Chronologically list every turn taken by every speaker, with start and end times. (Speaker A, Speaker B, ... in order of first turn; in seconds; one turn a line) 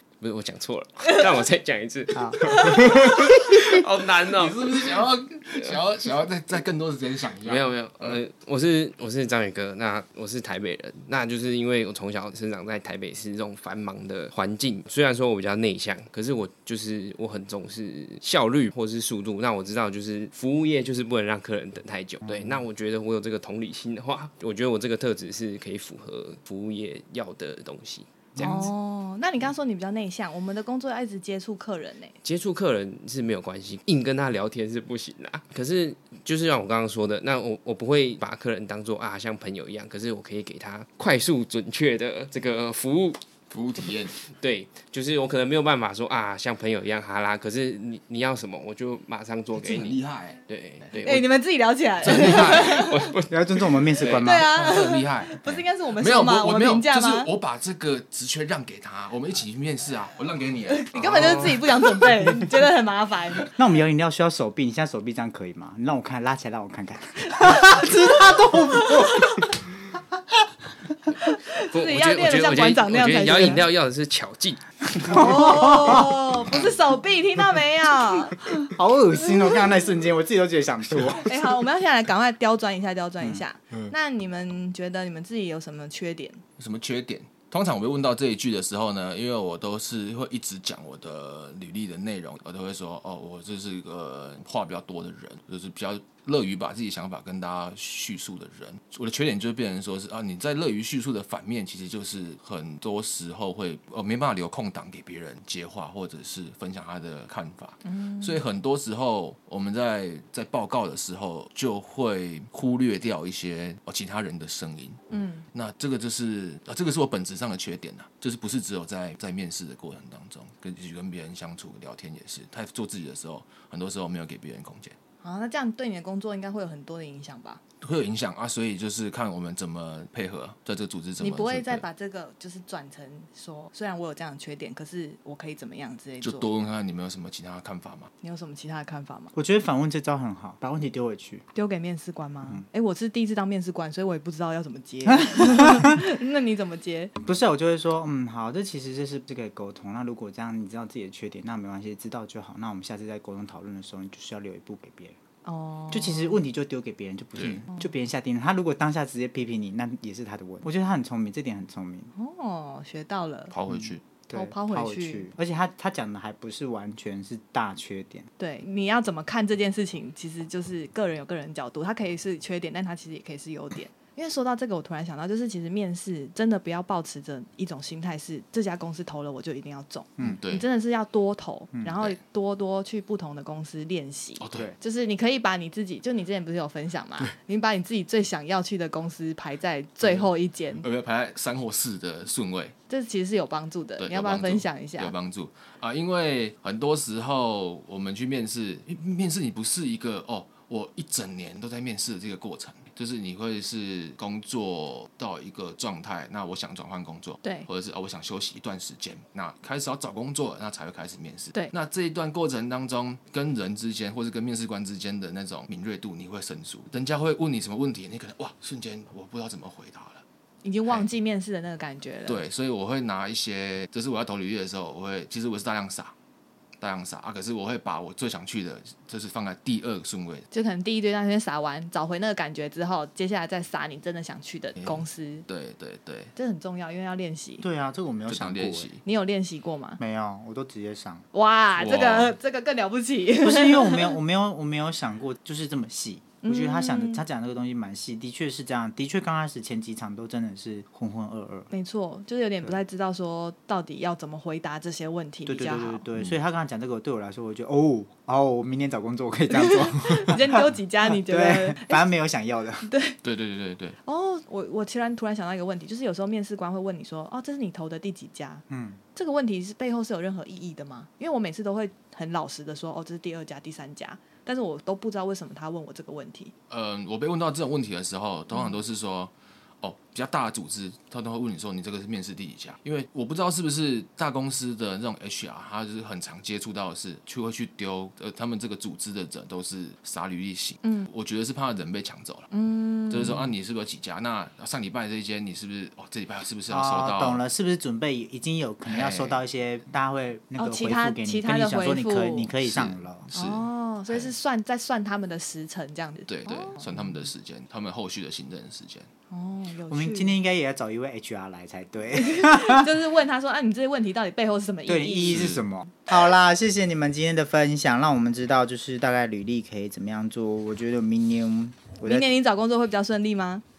Speaker A: 0.2-5.0
Speaker B: 2.1-2.4
Speaker C: 4.3-8.2
Speaker A: 7.4-28.1
Speaker B: 22.2-22.6
Speaker B: 28.4-28.7
Speaker D: 28.4-32.1
Speaker A: 32.2-43.2
Speaker C: 43.5-44.2
Speaker A: 44.2-51.3
Speaker C: 49.5-51.0
Speaker D: 51.0-53.1
Speaker C: 52.0-52.9
Speaker A: 52.0-53.8
Speaker B: 53.3-54.5
Speaker C: 54.0-61.7
Speaker D: 54.1-57.3
Speaker D: 60.7-63.5
Speaker B: 63.6-69.5
Speaker D: 67.2-69.5
Speaker D: 71.2-73.6
Speaker A: 71.7-75.2
Speaker B: 75.0-76.2
Speaker D: 75.0-78.5
Speaker B: 78.5-81.3
Speaker D: 81.2-86.4
Speaker C: 86.6-115.0
Speaker D: 107.8-108.4
Speaker D: 115.1-115.5
Speaker C: 115.5-125.0
Speaker D: 125.2-127.6
Speaker C: 127.8-131.8
Speaker D: 131.2-136.5
Speaker C: 136.2-138.1
Speaker D: 138.2-139.3
Speaker B: 139.3-141.4
Speaker D: 141.5-147.1
Speaker B: 145.3-145.9
Speaker B: 147.2-155.2
Speaker D: 155.4-156.4
Speaker B: 155.9-162.1
Speaker D: 162.2-163.5
Speaker C: 163.5-164.0
Speaker B: 163.7-168.3
Speaker D: 164.3-165.3
Speaker D: 168.4-190.8
Speaker C: 180.2-180.6
Speaker C: 184.4-184.7
Speaker C: 190.0-192.7
Speaker D: 192.9-195.1
Speaker C: 194.0-220.2
Speaker D: 207.4-207.7
Speaker D: 220.6-222.4
Speaker C: 222.3-226.1
Speaker C: 226.8-230.5
Speaker D: 230.5-235.4
Speaker C: 234.8-236.3
Speaker D: 236.3-237.6
Speaker B: 237.6-239.0
Speaker C: 238.3-239.0
Speaker D: 239.0-240.0
Speaker B: 240.0-241.2
Speaker D: 241.3-244.2
Speaker C: 241.7-242.3
Speaker B: 243.4-251.7
Speaker D: 246.4-247.2
Speaker D: 251.7-256.0
Speaker B: 255.4-262.9
Speaker D: 259.5-262.0
Speaker D: 262.8-263.2
Speaker C: 263.2-264.0
Speaker D: 264.0-268.6
Speaker B: 268.7-269.0
Speaker D: 269.1-276.5
Speaker C: 276.7-292.5
Speaker D: 290.8-291.1
Speaker D: 292.5-293.5
Speaker C: 293.1-297.4
Speaker B: 296.7-303.3
Speaker C: 298.9-299.4
Speaker D: 300.6-302.5
Speaker C: 302.6-304.3
Speaker D: 303.3-306.8
Speaker C: 306.3-309.1
Speaker D: 309.3-310.4
Speaker B: 309.9-312.9
Speaker D: 312.1-315.5
Speaker B: 314.9-322.3
Speaker C: 315.3-315.6
Speaker D: 322.0-323.6